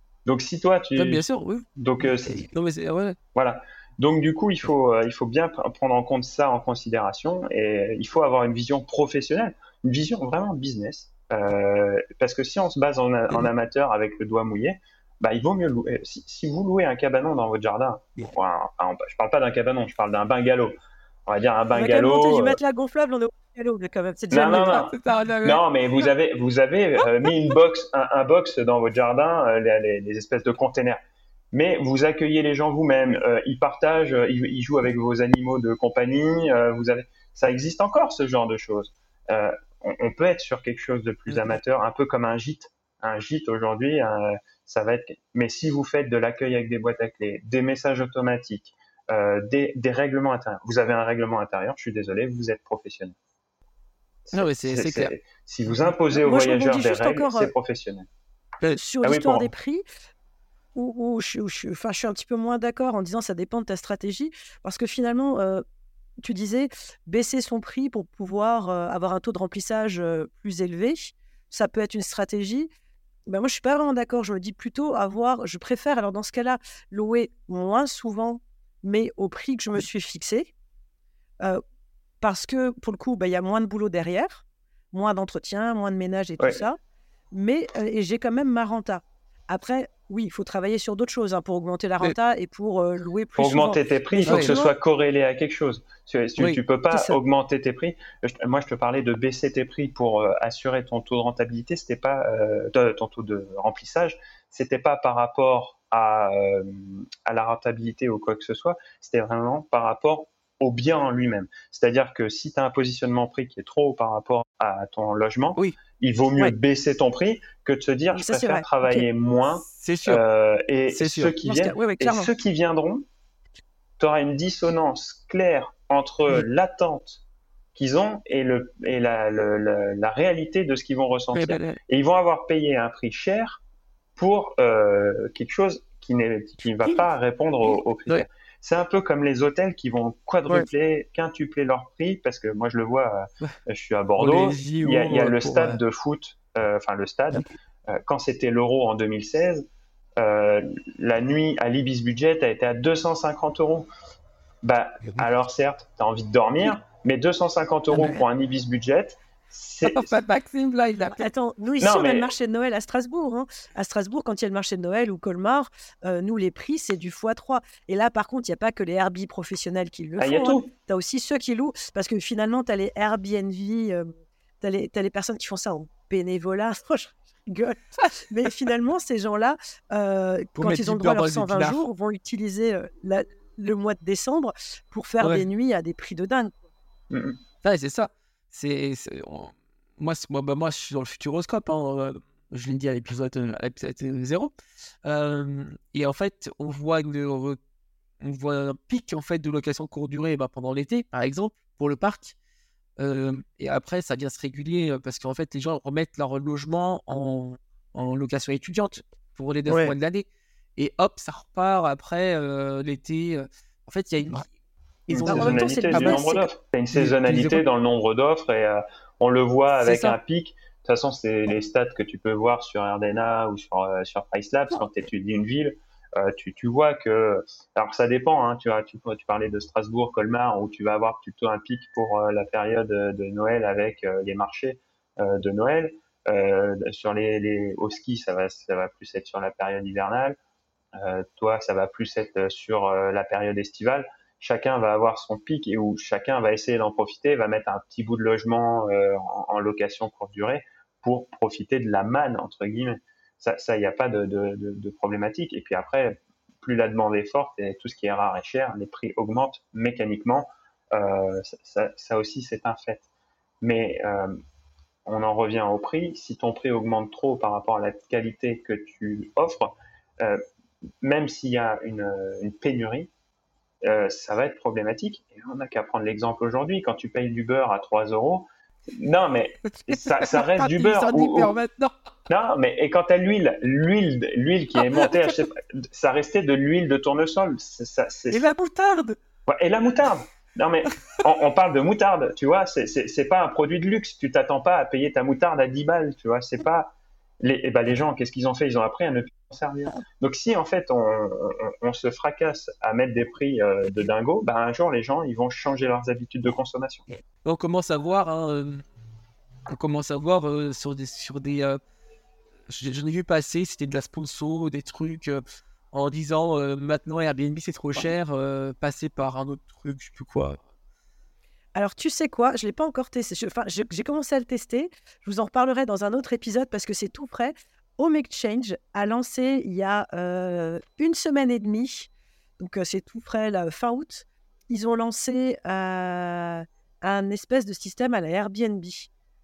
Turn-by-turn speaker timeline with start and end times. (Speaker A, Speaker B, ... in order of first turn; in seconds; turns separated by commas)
Speaker A: 0.3-1.2, Speaker B: 1.0-3.2, Speaker A: 1.8-2.5, Speaker A: 3.3-20.7, Speaker A: 21.3-22.6, Speaker C: 21.7-24.9, Speaker A: 24.3-31.0, Speaker B: 24.7-25.6, Speaker A: 31.5-53.2, Speaker A: 54.3-58.1, Speaker B: 54.3-55.1, Speaker C: 56.1-57.5, Speaker C: 58.7-59.8, Speaker A: 59.0-59.5, Speaker C: 60.8-65.6, Speaker C: 66.2-72.7, Speaker C: 73.3-80.5, Speaker C: 82.2-86.8, Speaker A: 86.4-86.6, Speaker C: 87.3-94.7, Speaker A: 93.4-123.0, Speaker B: 94.3-94.6, Speaker C: 96.9-97.2, Speaker C: 118.1-119.0, Speaker B: 119.7-120.2, Speaker B: 120.9-121.3, Speaker C: 121.4-122.3, Speaker A: 124.0-127.2, Speaker A: 127.8-133.6, Speaker B: 131.3-131.8, Speaker A: 134.2-149.6, Speaker B: 144.2-145.8, Speaker A: 150.2-153.9, Speaker A: 154.6-160.2, Speaker B: 159.8-161.3, Speaker C: 161.1-174.1, Speaker A: 161.8-162.3, Speaker A: 170.2-170.7, Speaker C: 174.6-186.5, Speaker B: 180.6-181.8, Speaker B: 185.2-185.5, Speaker A: 187.1-187.4, Speaker B: 187.6-194.5, Speaker B: 195.1-197.6, Speaker B: 198.2-202.4, Speaker B: 203.0-214.5, Speaker C: 209.7-209.9, Speaker B: 215.1-216.3, Speaker A: 215.1-240.4, Speaker C: 215.2-216.5, Speaker B: 216.9-217.6, Speaker B: 219.9-220.2, Speaker A: 240.9-263.1, Speaker A: 263.6-264.4, Speaker A: 265.1-270.4, Speaker A: 271.0-273.1, Speaker A: 273.8-281.5, Speaker B: 279.8-281.9, Speaker A: 282.3-288.4, Speaker B: 284.9-285.3, Speaker B: 288.3-289.2, Speaker A: 289.5-307.1, Speaker B: 307.4-308.8, Speaker B: 309.7-311.8, Speaker B: 312.7-320.6, Speaker C: 321.8-339.1